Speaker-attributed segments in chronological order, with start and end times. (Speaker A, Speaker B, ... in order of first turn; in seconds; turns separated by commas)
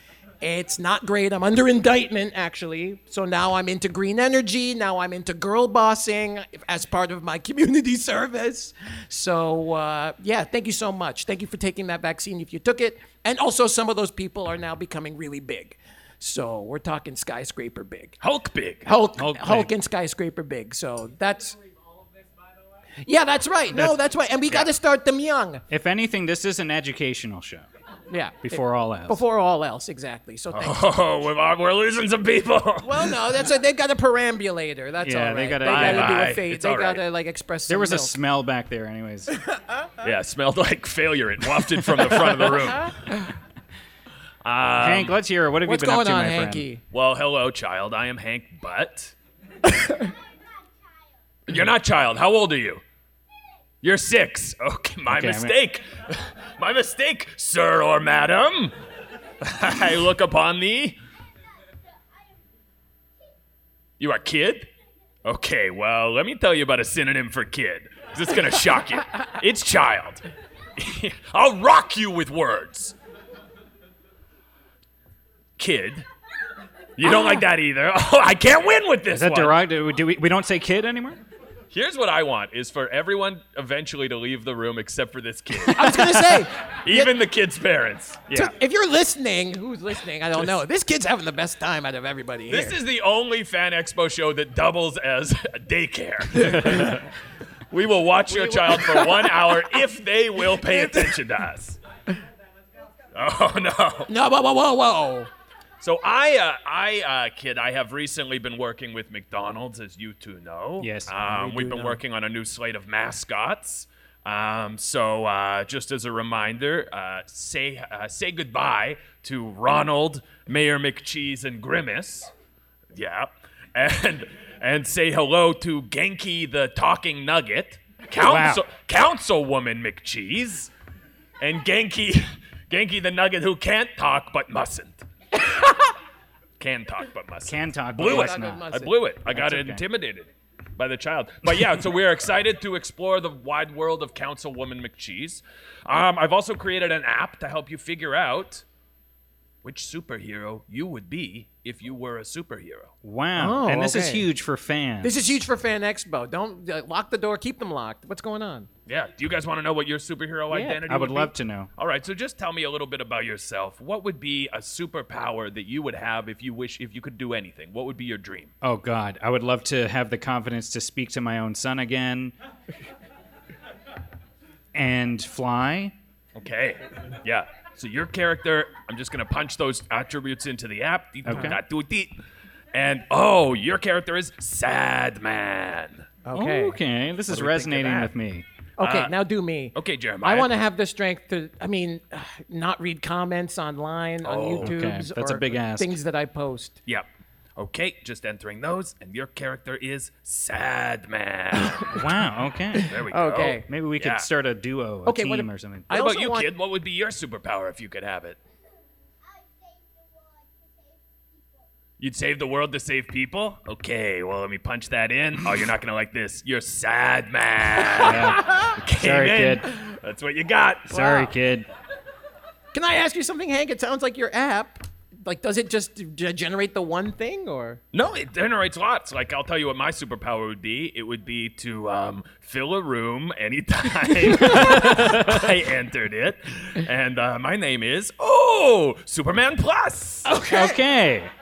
Speaker A: 0.4-18.2, Speaker B: 18.2-18.9, Speaker A: 18.8-21.6, Speaker C: 19.2-19.7, Speaker A: 23.0-25.6, Speaker C: 25.7-27.6, Speaker A: 28.1-30.9, Speaker C: 28.4-29.2, Speaker B: 30.5-33.1, Speaker A: 32.8-38.1, Speaker C: 35.0-36.3, Speaker B: 35.6-37.0, Speaker C: 37.7-39.3, Speaker B: 40.0-43.1, Speaker B: 44.4-45.2, Speaker C: 44.8-46.7, Speaker A: 45.6-46.8, Speaker B: 46.9-49.1, Speaker B: 51.5-52.8, Speaker B: 53.8-58.7, Speaker C: 55.1-55.5, Speaker B: 59.4-61.0, Speaker B: 64.0-64.7, Speaker B: 65.2-70.2, Speaker B: 70.8-72.9, Speaker B: 75.6-76.1, Speaker B: 77.0-79.6, Speaker C: 79.1-81.2, Speaker B: 81.7-88.2, Speaker A: 85.7-87.1, Speaker A: 88.3-92.8, Speaker B: 92.5-97.0, Speaker A: 96.5-96.8, Speaker B: 97.7-101.8, Speaker A: 98.3-99.5, Speaker A: 100.6-101.1, Speaker B: 103.1-104.1, Speaker A: 104.1-105.3, Speaker B: 105.8-122.3, Speaker C: 110.8-111.1, Speaker A: 111.2-112.0, Speaker B: 122.9-130.7, Speaker C: 128.2-128.6, Speaker B: 131.4-135.0, Speaker B: 136.6-148.6, Speaker C: 137.5-138.7, Speaker A: 138.0-138.9, Speaker C: 139.2-139.8, Speaker B: 149.6-152.9, Speaker C: 153.0-155.2, Speaker A: 153.3-154.2, Speaker A: 155.0-158.7, Speaker B: 158.9-168.5, Speaker A: 160.5-160.8, Speaker C: 160.9-161.7, Speaker C: 168.6-172.3, Speaker C: 174.7-175.9, Speaker B: 176.3-182.2, Speaker C: 181.2-181.6, Speaker B: 182.7-186.1, Speaker A: 186.2-186.8, Speaker C: 186.3-188.4, Speaker A: 187.3-188.1, Speaker A: 188.8-196.8, Speaker B: 188.8-189.1, Speaker B: 189.7-190.5, Speaker B: 194.2-194.7, Speaker C: 194.6-195.9, Speaker B: 196.8-202.0, Speaker C: 201.9-202.9, Speaker B: 202.8-204.3, Speaker A: 203.0-203.6, Speaker C: 203.7-205.9, Speaker A: 205.0-206.5, Speaker B: 205.9-208.4, Speaker B: 212.0-220.9, Speaker C: 218.0-219.7, Speaker A: 220.9-221.3, Speaker C: 220.9-221.7, Speaker A: 222.7-227.8, Speaker B: 227.9-240.3, Speaker A: 240.2-240.8, Speaker C: 240.4-241.3